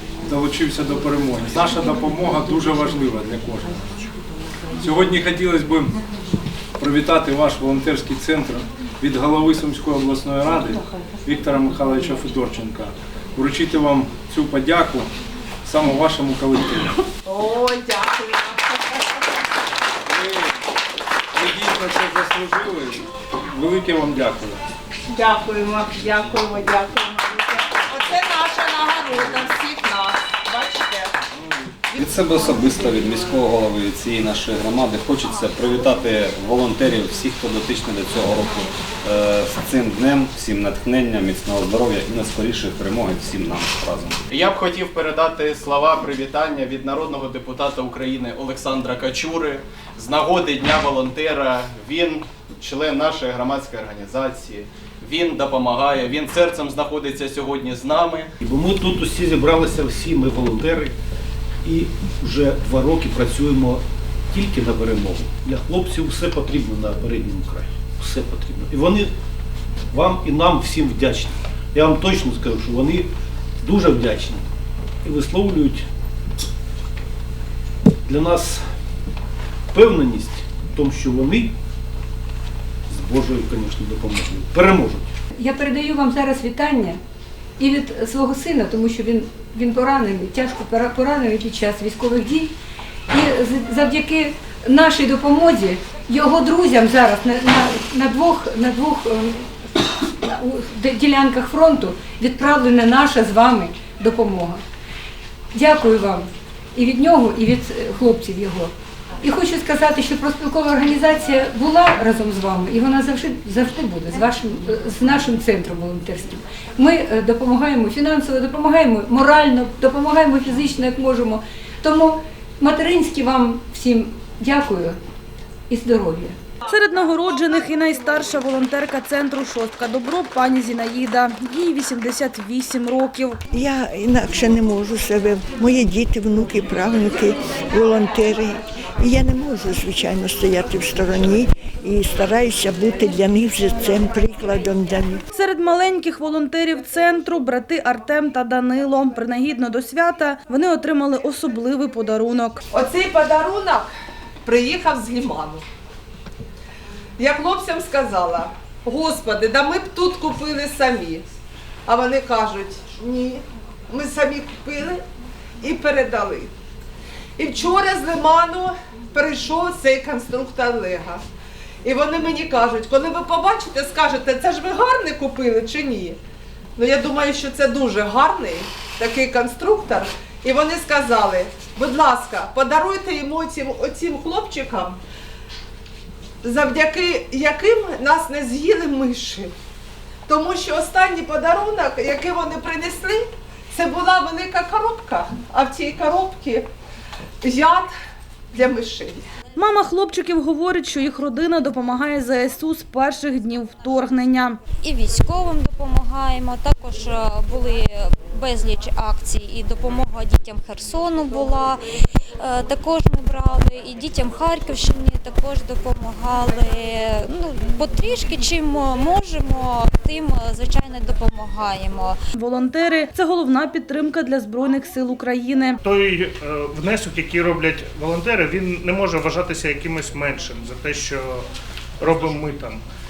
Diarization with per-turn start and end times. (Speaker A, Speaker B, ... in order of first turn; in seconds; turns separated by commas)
Speaker A: 0.2-3.8, Speaker A: 4.8-6.0, Speaker A: 6.8-15.1, Speaker A: 15.6-17.0, Speaker B: 17.3-18.8, Speaker A: 20.1-20.5, Speaker A: 21.3-24.6, Speaker B: 25.1-31.1, Speaker C: 32.0-44.2, Speaker D: 44.3-58.3, Speaker E: 58.4-60.9, Speaker E: 61.6-69.1, Speaker E: 69.9-73.1, Speaker E: 73.6-74.4, Speaker E: 75.0-75.8, Speaker E: 78.0-78.6, Speaker E: 79.7-81.5, Speaker E: 82.9-85.1, Speaker F: 85.4-87.0, Speaker F: 87.6-92.5, Speaker F: 93.1-104.6, Speaker F: 105.5-125.0, Speaker F: 125.7-126.3, Speaker G: 126.7-133.4, Speaker H: 133.5-145.2, Speaker G: 145.3-152.6, Speaker B: 152.7-153.9, Speaker B: 154.4-155.6, Speaker B: 157.2-161.3, Speaker B: 161.8-165.0, Speaker B: 165.6-166.5, Speaker B: 167.4-171.2, Speaker B: 171.8-176.2, Speaker B: 176.8-185.0, Speaker B: 186.4-189.5, Speaker B: 190.2-196.7, Speaker B: 197.4-197.9, Speaker B: 198.5-199.2, Speaker G: 199.5-204.6, Speaker I: 204.8-211.8, Speaker I: 212.4-222.2, Speaker G: 222.3-225.8, Speaker J: 225.8-231.4, Speaker J: 232.0-232.8